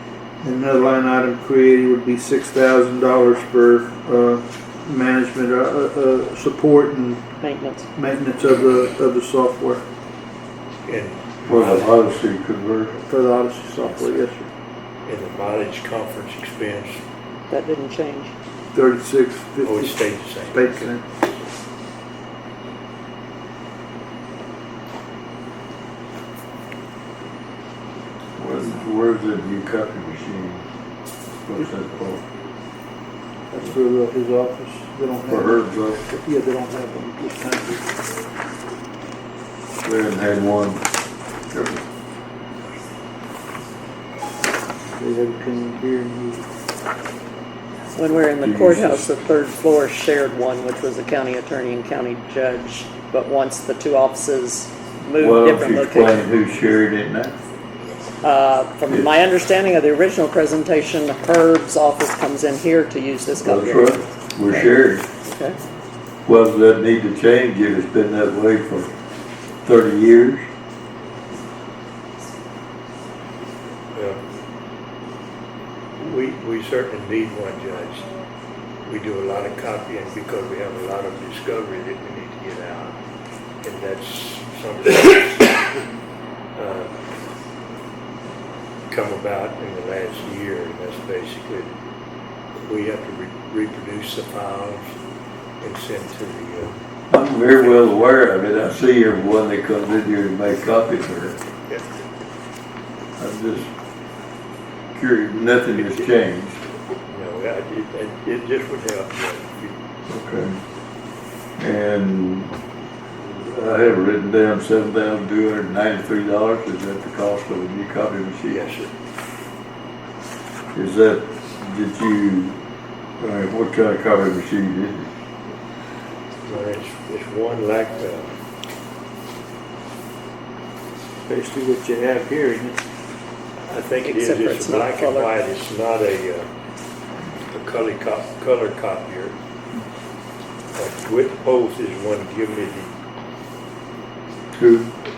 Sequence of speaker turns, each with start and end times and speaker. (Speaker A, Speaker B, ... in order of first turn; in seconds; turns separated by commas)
Speaker A: 0.4-7.2, Speaker B: 7.4-7.9, Speaker A: 8.0-9.8, Speaker C: 10.8-12.0, Speaker D: 11.5-13.0, Speaker A: 13.0-14.5, Speaker C: 15.1-17.0, Speaker B: 17.5-18.3, Speaker A: 18.7-21.0, Speaker C: 19.6-21.4, Speaker D: 28.4-30.6, Speaker D: 31.4-32.2, Speaker A: 33.5-37.9, Speaker D: 35.3-36.0, Speaker D: 39.8-40.9, Speaker D: 41.5-41.8, Speaker A: 45.0-46.5, Speaker B: 47.9-56.2, Speaker D: 48.4-49.1, Speaker D: 55.2-57.4, Speaker B: 58.2-65.6, Speaker D: 58.9-59.1, Speaker D: 63.4-65.0, Speaker D: 66.2-68.9, Speaker D: 69.6-70.5, Speaker C: 73.9-74.2, Speaker C: 76.0-78.1, Speaker C: 78.8-83.0, Speaker C: 83.6-85.7, Speaker C: 86.5-86.9, Speaker C: 88.9-91.7, Speaker C: 92.5-94.9, Speaker C: 95.6-96.7, Speaker D: 97.1-101.4, Speaker C: 97.6-98.3, Speaker D: 103.2-103.7, Speaker D: 104.9-106.6, Speaker C: 105.7-106.1, Speaker C: 107.1-109.7, Speaker D: 110.1-110.6, Speaker D: 111.6-112.6, Speaker D: 113.2-118.6, Speaker C: 118.5-118.9, Speaker D: 120.7-122.5, Speaker D: 123.2-125.1, Speaker C: 126.4-128.3, Speaker A: 131.3-132.8, Speaker C: 133.7-136.5, Speaker B: 134.0-135.3, Speaker C: 137.5-139.3, Speaker C: 140.7-142.9, Speaker D: 144.5-144.9